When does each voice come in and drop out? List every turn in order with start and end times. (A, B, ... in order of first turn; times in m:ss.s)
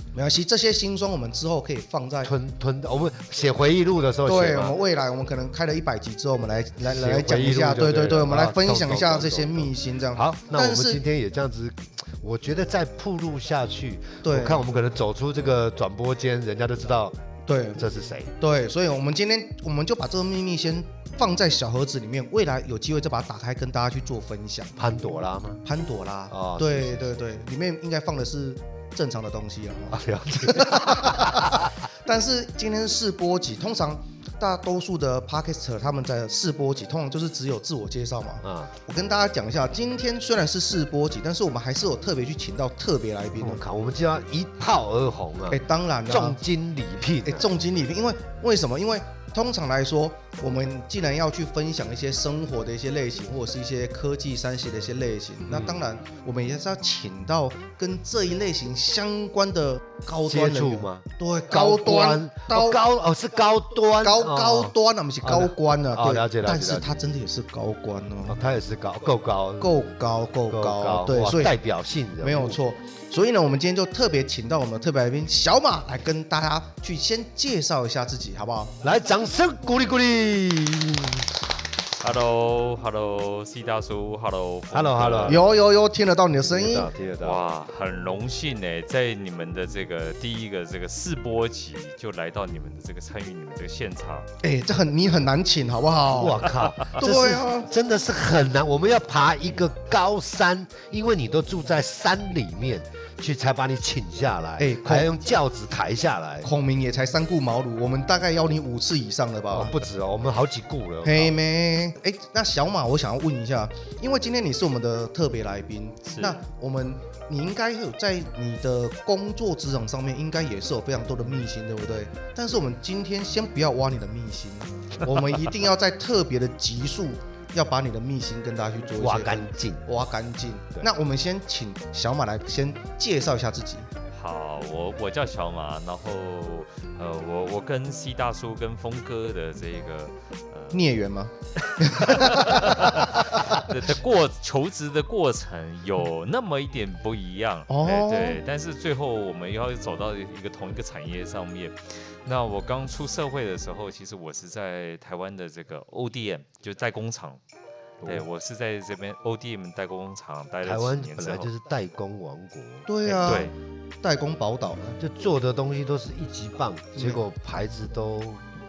0:00.1-0:02.3 A
0:02.2-0:04.8 B
0:04.2-0:11.0 A
0:06.8-0:17.2 B
0:14.2-0:14.6 A
0:17.5-0:17.8 A
0:17.8-0:18.3 B
0:18.4-0:24.8 A
0:24.8-0:25.6 B
0:25.6-0:43.6 A
0:26.3-0:27.2 B
0:29.9-0:31.6 B
0:38.4-0:38.7 B
0:43.4-0:47.5 B
0:45.5-0:46.4 A
0:47.2-1:02.8 A
0:55.5-0:55.8 B
1:00.2-1:07.0 B
1:04.0-1:08.4 A
1:08.2-1:09.9 B
1:09.6-1:11.5 A
1:10.5-1:12.6 B
1:12.2-1:18.8 A
1:18.8-1:21.2 B
1:22.0-1:25.5 C
1:24.7-1:25.4 B
1:25.3-1:26.9 A
1:26.4-1:27.5 B
1:27.2-1:34.3 C
1:34.4-1:37.7 A
1:36.1-1:46.5 B
1:44.6-1:45.1 A
1:46.4-1:49.8 A
1:49.5-1:51.3 B
1:51.0-2:13.9 A
1:56.0-1:56.4 C
2:09.0-2:09.8 B
2:14.1-2:20.9 C
2:20.7-2:23.5 A
2:22.0-2:37.4 C
2:27.7-2:28.4 A
2:38.0-2:38.3 B
2:38.0-2:41.5 C
2:40.6-2:42.9 B
2:42.9-2:45.0 A
2:43.0-2:43.5 C
2:45.0-2:48.4 B
2:47.0-2:47.2 A